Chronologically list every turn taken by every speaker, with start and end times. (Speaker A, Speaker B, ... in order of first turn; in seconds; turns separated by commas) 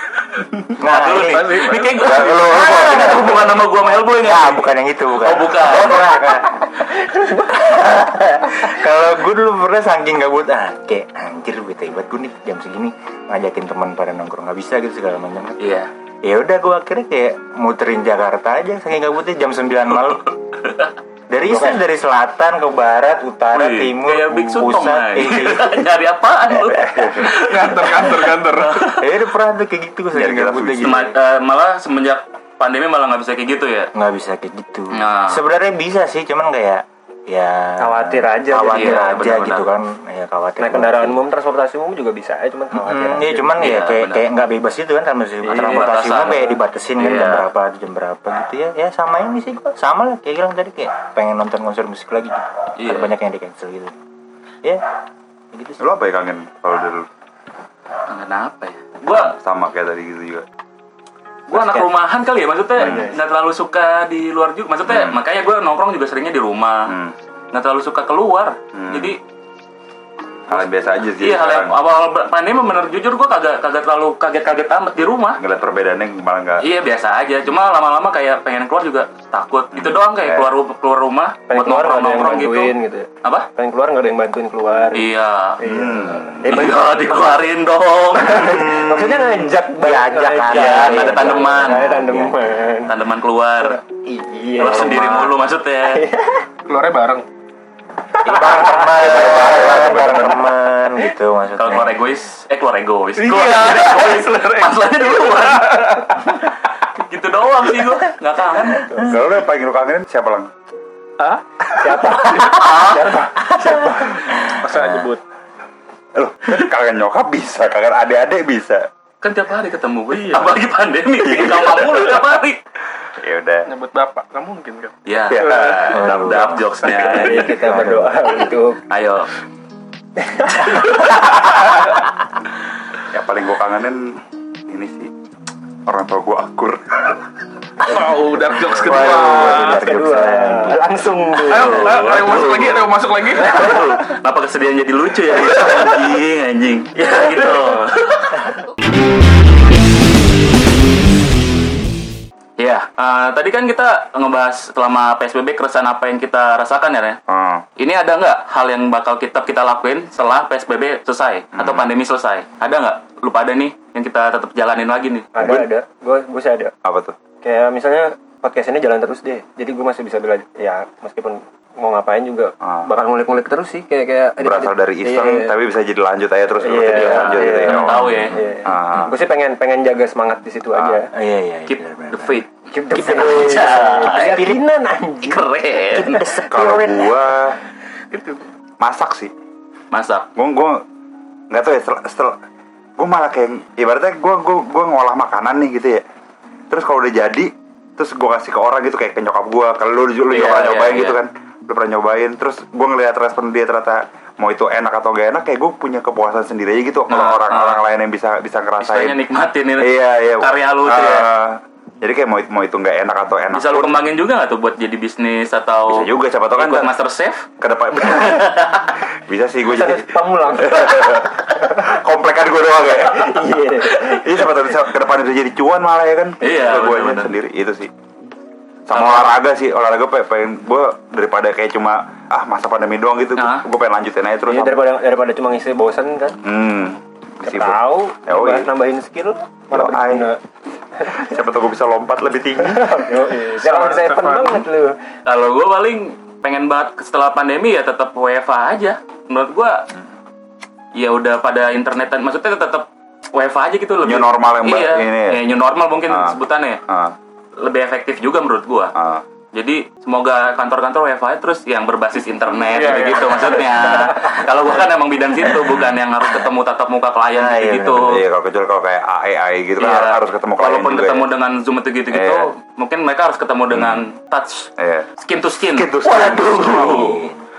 Speaker A: 0.7-6.3, Speaker B: 0.8-1.7, Speaker C: 1.2-2.3, Speaker D: 2.0-3.5, Speaker B: 2.4-6.7, Speaker E: 7.1-7.5, Speaker B: 7.5-15.6, Speaker A: 15.6-15.9, Speaker B: 16.2-20.3, Speaker B: 21.3-25.9, Speaker D: 21.5-21.8, Speaker A: 23.5-28.1, Speaker D: 26.9-27.3, Speaker C: 27.2-28.9, Speaker A: 28.6-28.9, Speaker B: 28.8-31.2, Speaker D: 30.1-31.0, Speaker A: 30.8-33.9, Speaker B: 33.9-41.2, Speaker A: 34.9-35.4, Speaker E: 37.8-39.1, Speaker A: 38.7-39.7, Speaker E: 40.6-43.5, Speaker B: 42.7-54.0, Speaker A: 43.6-44.3, Speaker E: 45.4-46.5, Speaker A: 45.5-46.5, Speaker A: 47.0-47.5, Speaker A: 52.8-53.2, Speaker B: 55.5-55.9, Speaker D: 55.8-57.0, Speaker A: 58.1-59.3, Speaker D: 59.1-60.4, Speaker A: 61.5-66.9, Speaker D: 62.8-63.1, Speaker E: 62.8-63.2, Speaker D: 64.9-65.2, Speaker D: 66.9-67.1, Speaker A: 67.5-69.2, Speaker D: 68.7-69.1, Speaker D: 70.5-71.7, Speaker A: 70.5-75.4, Speaker D: 75.4-76.6, Speaker A: 76.6-83.5, Speaker D: 79.7-80.5, Speaker E: 81.5-85.1, Speaker A: 84.9-85.6, Speaker E: 85.6-87.4, Speaker D: 85.7-86.7, Speaker A: 86.5-88.7, Speaker E: 88.2-92.9, Speaker B: 88.2-92.4, Speaker A: 90.5-91.8, Speaker A: 92.8-93.8, Speaker E: 93.9-95.3, Speaker A: 94.6-96.0, Speaker E: 95.9-96.5, Speaker C: 96.7-97.2, Speaker B: 98.2-102.0, Speaker E: 98.3-98.6, Speaker D: 98.5-100.5, Speaker A: 101.5-106.3, Speaker C: 103.2-106.5, Speaker A: 106.9-108.9, Speaker D: 108.9-110.5, Speaker C: 111.2-115.2, Speaker E: 111.8-113.2, Speaker A: 112.4-113.2, Speaker D: 113.2-114.3, Speaker D: 116.1-118.8, Speaker A: 119.2-122.6, Speaker C: 120.2-120.5, Speaker D: 121.2-122.2, Speaker D: 123.2-123.7, Speaker C: 123.7-125.0, Speaker A: 125.0-127.5, Speaker D: 125.3-126.4, Speaker E: 125.4-125.8, Speaker B: 125.9-128.3, Speaker E: 127.1-128.8, Speaker A: 128.9-129.3, Speaker E: 130.2-131.1, Speaker A: 130.9-131.3, Speaker C: 131.4-131.9, Speaker D: 133.1-135.1, Speaker D: 135.8-137.2, Speaker C: 137.8-139.8, Speaker B: 138.7-140.8, Speaker E: 138.8-141.9, Speaker C: 141.4-143.9, Speaker A: 141.5-148.5, Speaker D: 145.3-145.9, Speaker A: 152.6-157.2, Speaker D: 157.3-157.6, Speaker A: 157.8-165.3, Speaker D: 161.6-161.9, Speaker E: 165.3-166.7, Speaker D: 165.4-165.7, Speaker D: 166.8-167.2, Speaker E: 167.4-175.5, Speaker D: 174.4-179.1, Speaker E: 176.6-181.1, Speaker A: 176.9-178.4, Speaker B: 177.7-178.4, Speaker B: 181.1-184.6, Speaker A: 181.7-184.5, Speaker E: 182.7-185.4, Speaker A: 185.2-186.2, Speaker B: 185.9-186.9, Speaker E: 186.3-187.3, Speaker D: 186.5-187.6, Speaker A: 188.1-188.4, Speaker D: 188.8-189.3, Speaker A: 189.9-190.3, Speaker D: 190.3-190.8, Speaker D: 191.5-192.3, Speaker D: 193.0-196.0, Speaker D: 196.7-209.2, Speaker A: 200.3-201.2, Speaker A: 207.1-207.8, Speaker A: 208.8-211.3, Speaker D: 209.8-214.0, Speaker A: 213.5-217.5, Speaker D: 215.9-216.9, Speaker D: 217.6-218.7, Speaker A: 218.0-218.9, Speaker D: 219.3-227.9, Speaker E: 219.7-221.9, Speaker E: 222.9-224.5, Speaker A: 226.4-227.3, Speaker D: 228.9-234.8, Speaker A: 228.9-229.4, Speaker A: 233.3-233.6, Speaker E: 234.5-236.3, Speaker D: 236.4-238.7, Speaker E: 237.4-240.4, Speaker D: 239.7-240.3, Speaker D: 241.1-242.9, Speaker E: 242.6-244.9, Speaker C: 243.3-244.6, Speaker A: 245.2-249.8, Speaker A: 250.9-256.8, Speaker D: 254.0-255.4, Speaker D: 256.1-256.4, Speaker D: 256.9-257.1, Speaker A: 257.6-258.9, Speaker D: 259.0-259.2, Speaker A: 259.5-268.2, Speaker C: 262.6-264.4, Speaker B: 265.4-265.9, Speaker B: 267.3-268.0, Speaker D: 268.0-271.3, Speaker A: 269.8-274.7, Speaker D: 272.1-272.5, Speaker D: 273.7-274.1, Speaker D: 274.8-275.1, Speaker A: 275.2-277.3, Speaker D: 275.7-277.1, Speaker B: 276.6-277.4